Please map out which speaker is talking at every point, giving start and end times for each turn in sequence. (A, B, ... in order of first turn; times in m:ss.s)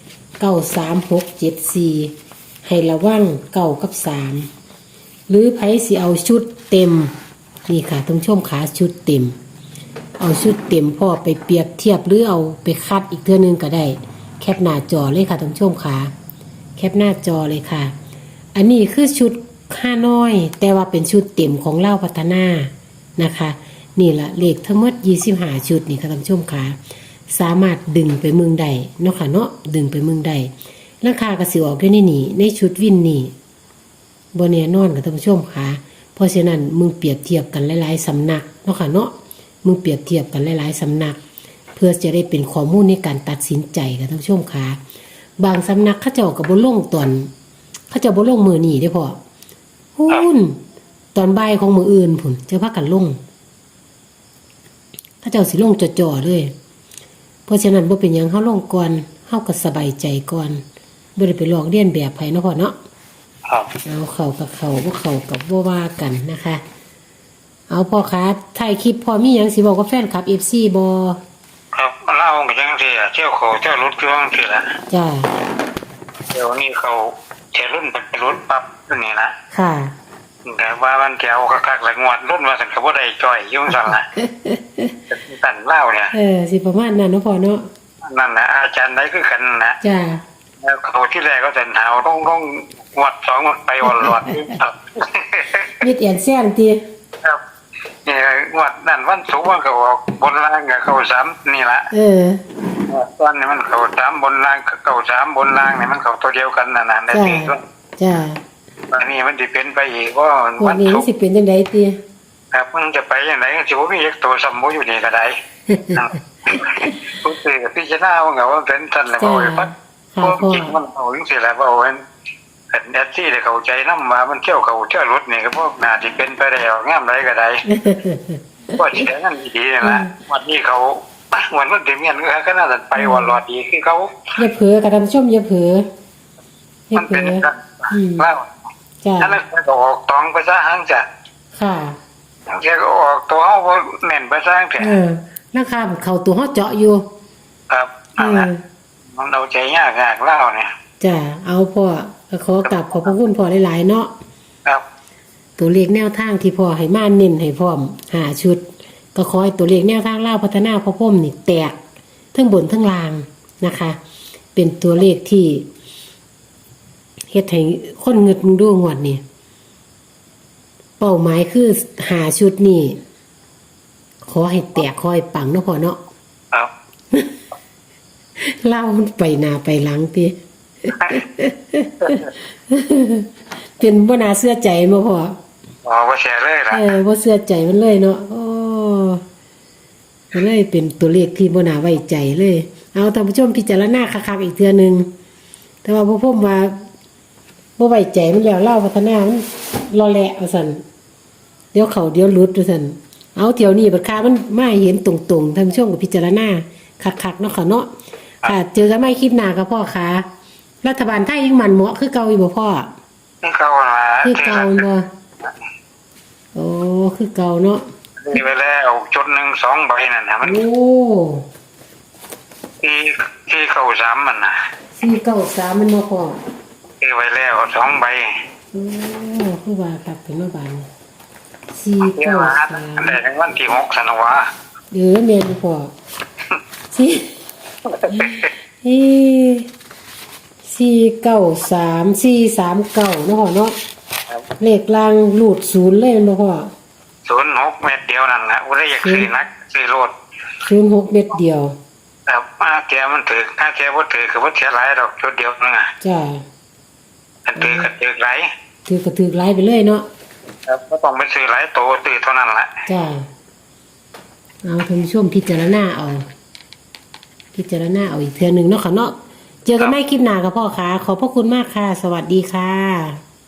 0:00.4-0:02.1 A
0:02.6-0:04.5 A
0:05.3-0:07.1 A
0:07.7-0:09.3 A
0:10.2-0:16.1 A
0:16.8-0:17.9 A
0:18.5-0:26.8 A
0:27.3-0:30.5 A
0:31.0-0:33.3 A
0:34.3-0:41.2 A
0:41.7-0:44.8 A
0:45.4-0:47.3 A
0:47.9-0:49.2 A
0:50.0-0:50.6 A
0:51.1-0:53.2 A
0:55.2-0:56.5 A
0:57.5-1:00.6 A
1:01.2-1:02.7 A
1:03.5-1:03.7 B
1:03.8-1:06.6 A
1:07.7-1:11.2 A
1:11.7-1:14.7 B
1:14.9-1:15.3 A
1:16.3-1:19.3 B
1:19.5-1:19.9 A
1:20.4-1:24.1 B
1:24.2-1:24.9 A
1:25.1-1:26.1 B
1:26.1-1:27.6 A
1:28.0-1:29.8 B
1:29.8-1:30.2 A
1:30.6-1:35.8 B
1:35.8-1:36.8 A
1:38.0-1:41.9 B
1:41.9-1:42.4 A
1:42.8-1:47.6 B
1:47.1-1:48.4 A
1:48.9-1:51.0 B
1:50.6-1:52.0 A
1:52.5-1:55.4 B
1:55.7-1:56.0 A
1:55.9-1:59.7 B
1:59.1-2:00.8 A
2:00.2-2:02.0 B
2:02.7-2:07.7 B
2:07.7-2:08.8 A
2:08.8-2:14.3 B
2:09.8-2:10.1 A
2:13.0-2:13.4 A
2:14.4-2:15.8 A
2:16.9-2:18.3 A
2:17.0-2:18.5 B
2:19.0-2:19.4 A
2:19.2-2:21.0 B
2:21.5-2:22.0 A
2:22.5-2:25.0 B
2:24.8-2:27.0 A
2:27.7-2:28.5 B
2:28.2-2:28.6 A
2:29.1-2:30.7 B
2:31.0-2:34.1 A
2:32.6-2:33.2 B
2:35.6-2:41.8 A
2:42.3-2:44.0 A
2:44.5-2:45.7 A
2:47.3-2:49.2 A
2:51.0-2:53.0 A
2:54.2-2:56.0 A
2:58.4-3:00.4 A
3:00.9-3:01.2 B
3:01.0-3:05.3 A
3:02.0-3:02.3 B
3:05.8-3:06.9 B
3:06.7-3:09.2 A
3:10.3-3:15.1 A
3:15.8-3:16.8 A
3:17.8-3:20.8 A
3:21.7-3:27.9 A
3:28.4-3:30.2 A
3:30.8-3:32.9 A
3:33.4-3:34.9 B
3:34.2-3:35.1 A
3:36.5-3:37.8 A
3:38.2-3:40.6 B
3:40.4-3:41.4 A
3:42.8-3:44.5 B
3:45.0-3:46.4 A
3:47.0-3:48.4 B
3:48.7-3:50.9 A
3:51.7-3:53.2 A
3:52.0-3:54.4 B
3:54.9-3:55.9 A
3:56.9-3:57.4 A
3:57.8-3:58.5 B
3:58.1-3:59.7 A
4:00.6-4:03.8 A
4:04.6-4:06.7 A
4:07.2-4:10.1 B
4:08.9-4:09.3 A
4:10.6-4:11.7 A
4:12.3-4:15.9 B
4:16.0-4:16.4 A
4:17.4-4:18.5 B
4:17.6-4:17.9 A
4:18.8-4:20.0 A
4:20.7-4:22.8 B
4:22.9-4:23.2 A
4:24.6-4:26.2 A
4:27.5-4:29.1 A
4:29.6-4:33.2 A